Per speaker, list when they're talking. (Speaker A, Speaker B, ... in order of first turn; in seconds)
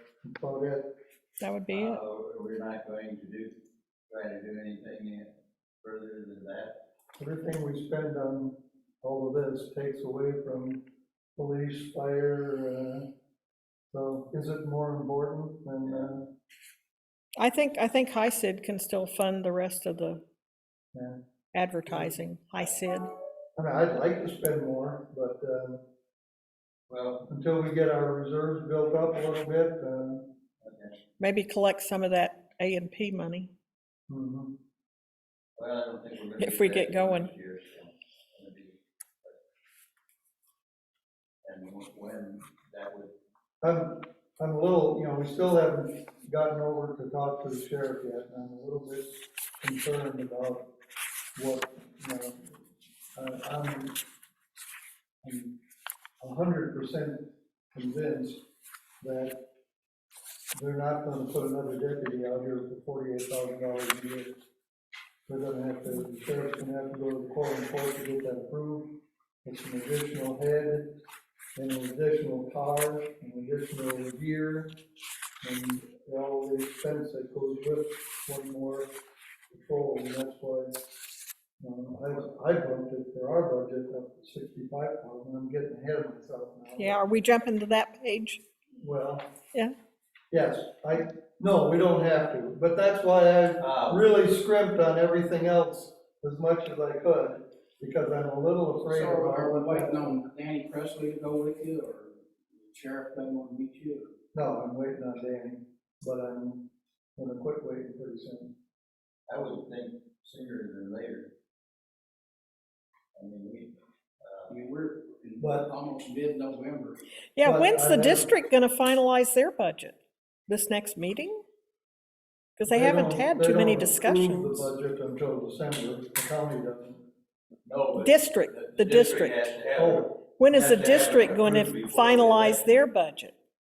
Speaker A: 0.2-0.9, 7.2-10.8, 11.4-13.1, 13.9-16.3, 20.9-21.2, 21.9-22.1, 23.6-25.8, 27.3-30.3, 34.1-34.5, 43.6-50.7, 51.4-52.6, 53.1-54.0, 55.2-55.6, 56.2-58.4, 59.0-59.5, 60.5-64.4, 65.3-71.0, 71.6-74.8, 75.4-78.9, 79.5-80.8, 81.6-87.1, 88.8-89.3, 90.3-100.2, 104.3-108.5, 115.4-115.7, 117.4-118.3, 122.7-127.1, 129.8-130.1
Speaker B: 1.4-2.0, 17.4-20.2, 21.5-23.1, 31.2-33.5, 36.4-37.3, 86.8-88.4, 117.3-120.0, 120.5-121.4, 122.6-124.7, 128.0-129.4, 130.4-133.3
Speaker C: 1.7-3.5, 4.1-6.8, 15.8-16.1, 26.9-27.3, 30.6-31.0, 35.6-39.4, 41.4-43.1, 93.6-94.1, 109.3-111.3, 113.2-114.6, 127.7-132.7
Speaker D: 98.9-104.1, 114.5-117.0